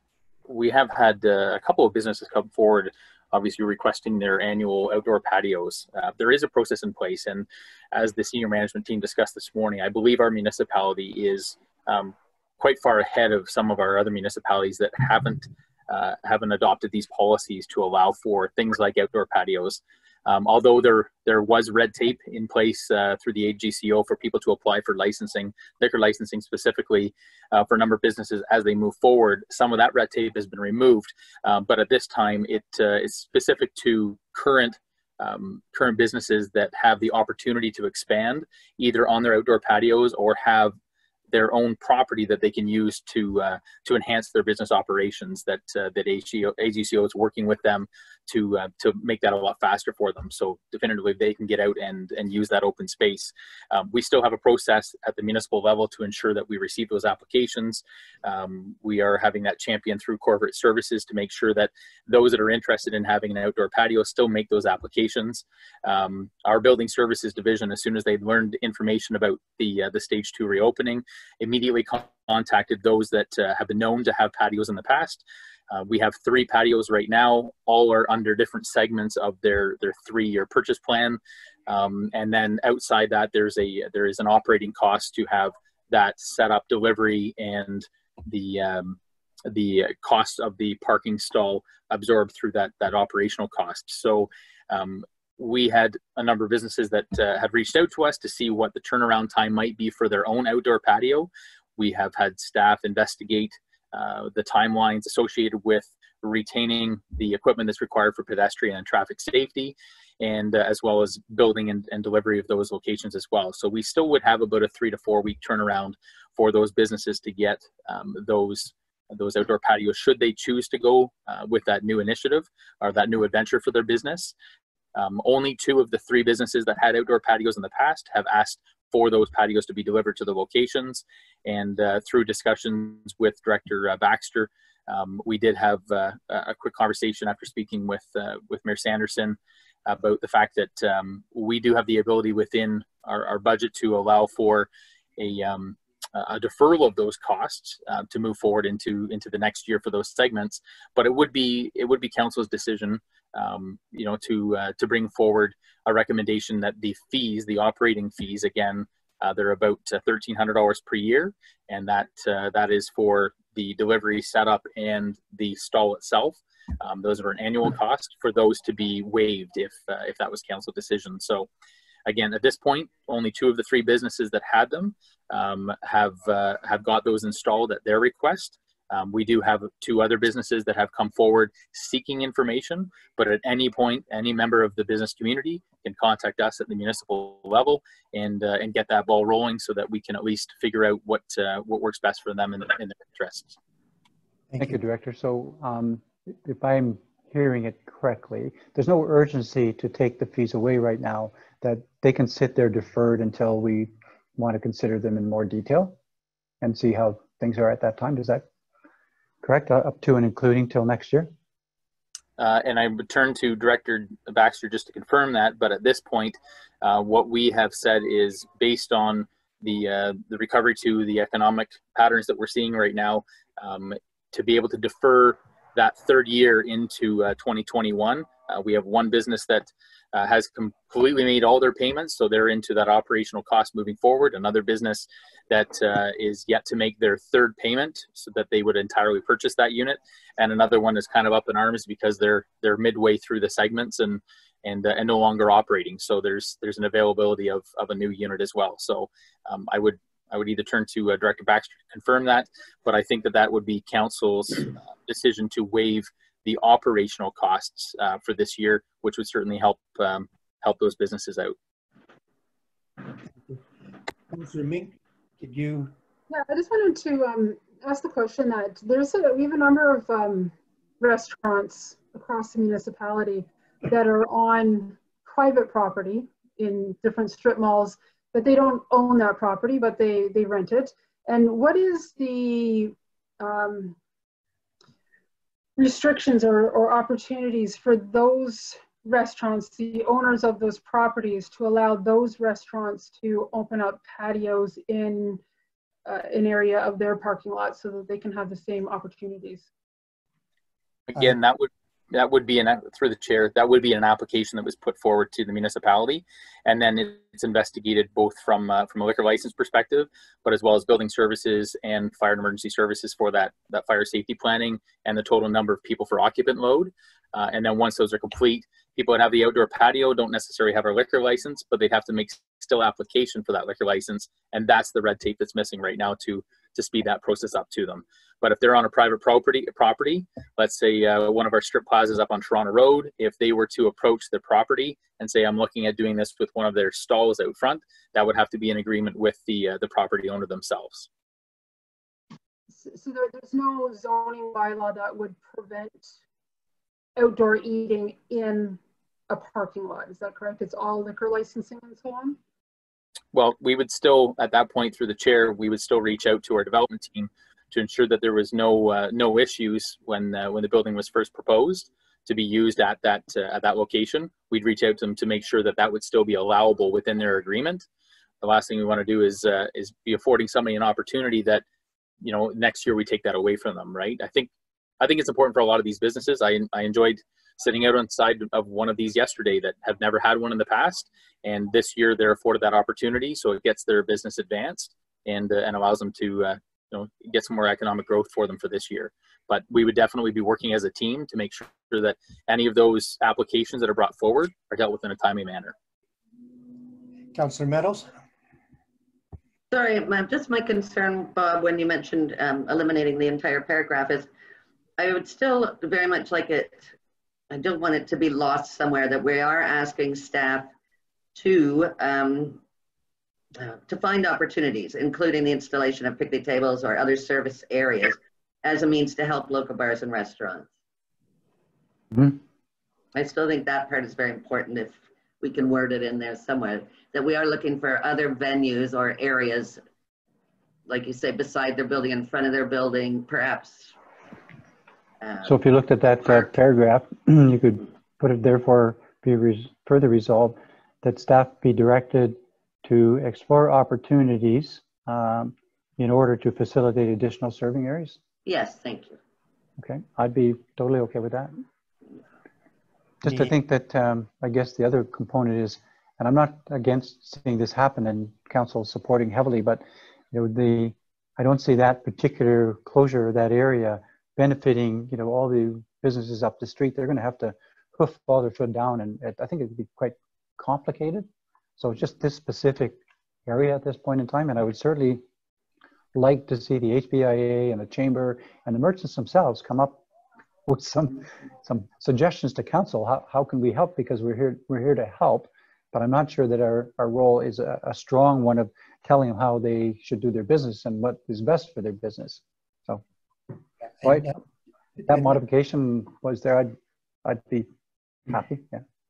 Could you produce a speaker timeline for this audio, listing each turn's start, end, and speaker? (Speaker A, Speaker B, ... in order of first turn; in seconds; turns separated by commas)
Speaker A: 0.5-40.7, Speaker A: 41.3-124.3, Speaker A: 124.9-171.5, Speaker A: 172.1-193.6, Speaker B: 194.5-194.8, Speaker C: 194.6-205.9, Speaker C: 206.6-208.4, Speaker C: 209.4-211.3, Speaker A: 212.4-261.5, Speaker B: 264.3-265.9, Speaker D: 266.3-283.9, Speaker D: 285.8-295.4, Speaker D: 296.1-299.7, Speaker A: 301.1-341.1, Speaker D: 342.7-346.1, Speaker D: 347.2-348.8, Speaker D: 349.3-352.4, Speaker A: 353.3-367.9, Speaker A: 368.4-371.6, Speaker A: 372.2-374.5, Speaker A: 375.0-395.7, Speaker B: 397.3-398.1, Speaker E: 399.7-404.3, Speaker E: 405.0-406.9, Speaker E: 407.5-410.7, Speaker E: 411.3-412.6, Speaker E: 413.6-420.7, Speaker E: 423.1-429.8, Speaker E: 430.9-433.9, Speaker E: 435.2-435.5, Speaker C: 435.4-448.2, Speaker E: 448.4-449.2, Speaker C: 449.8-451.5, Speaker C: 453.2-471.3, Speaker B: 453.2-453.5, Speaker C: 471.8-475.2, Speaker C: 476.1-480.0, Speaker C: 480.6-493.0, Speaker B: 494.0-494.4, Speaker C: 494.0-494.3, Speaker B: 495.0-495.3, Speaker C: 495.1-497.7, Speaker C: 498.3-498.8